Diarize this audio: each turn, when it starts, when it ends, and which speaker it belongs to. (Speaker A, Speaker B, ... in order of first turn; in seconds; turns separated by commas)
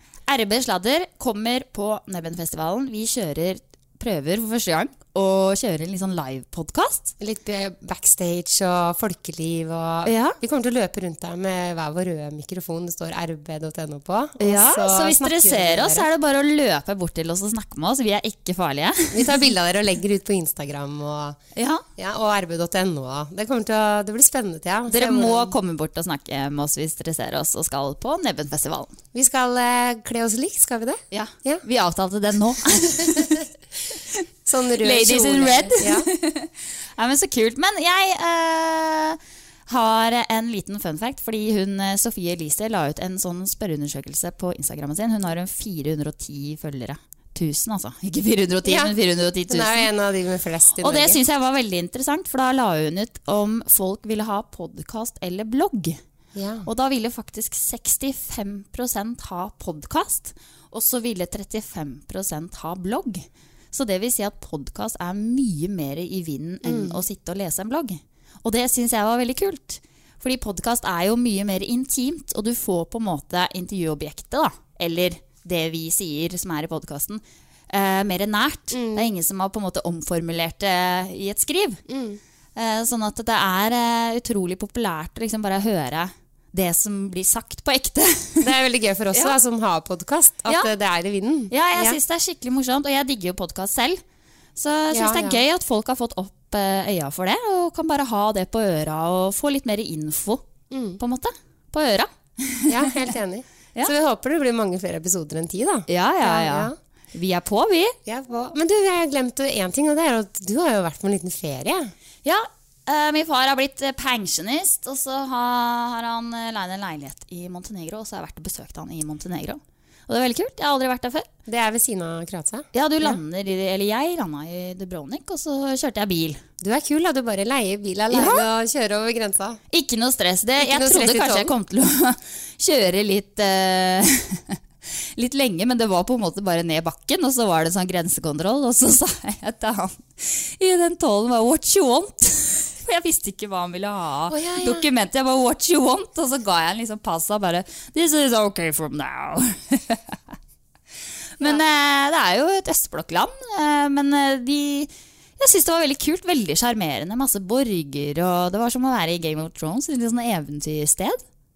Speaker A: 0.3-7.1, Speaker B: 7.2-16.1, Speaker A: 10.0-10.4, Speaker A: 14.4-19.4, Speaker B: 19.1-21.4, Speaker A: 21.6-21.8, Speaker B: 22.0-25.5, Speaker A: 24.9-28.9, Speaker B: 29.1-31.6, Speaker A: 31.1-33.4, Speaker B: 34.5-36.1, Speaker A: 34.8-49.9, Speaker B: 48.6-48.9, Speaker B: 49.5-51.2, Speaker A: 50.8-56.0, Speaker B: 56.3-56.7, Speaker A: 56.6-81.8, Speaker B: 66.6-67.0, Speaker B: 78.7-79.1, Speaker B: 81.9-82.2, Speaker A: 82.5-88.5, Speaker B: 88.4-92.0, Speaker A: 91.5-94.0, Speaker A: 94.5-100.4, Speaker B: 94.9-95.4, Speaker B: 100.7-101.0, Speaker A: 101.0-102.7, Speaker B: 102.7-106.7, Speaker A: 105.9-108.0, Speaker B: 108.0-111.9, Speaker A: 112.2-121.3, Speaker B: 121.5-123.2, Speaker A: 122.7-126.4, Speaker B: 126.6-129.6, Speaker A: 128.1-128.4, Speaker A: 129.7-134.6, Speaker B: 130.6-131.5, Speaker A: 135.2-150.2, Speaker B: 144.3-144.8, Speaker A: 151.4-161.2